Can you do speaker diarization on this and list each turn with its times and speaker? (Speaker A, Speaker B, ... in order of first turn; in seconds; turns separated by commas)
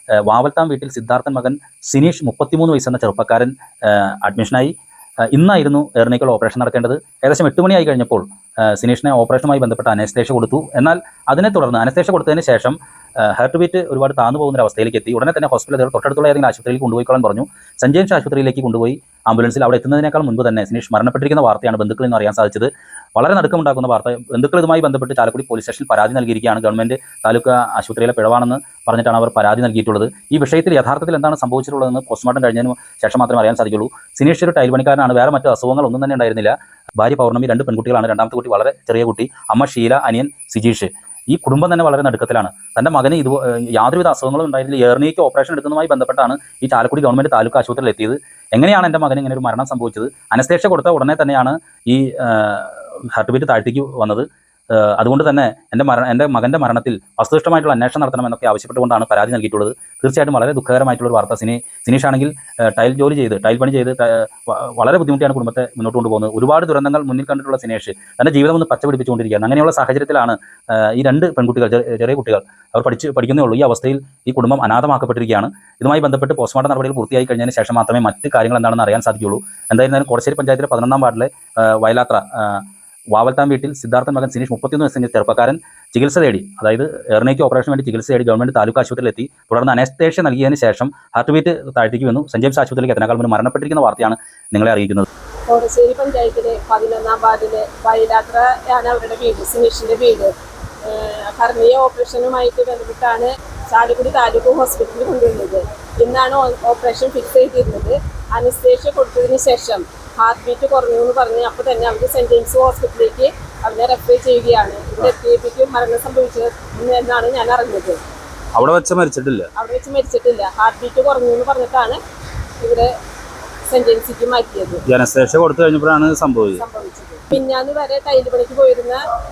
Speaker A: 0.2-95.1, Speaker B: 95.5-118.0, Speaker A: 118.5-119.5, Speaker B: 119.5-122.0, Speaker B: 122.6-122.9, Speaker B: 123.7-124.8, Speaker A: 124.9-126.6, Speaker B: 126.5-129.0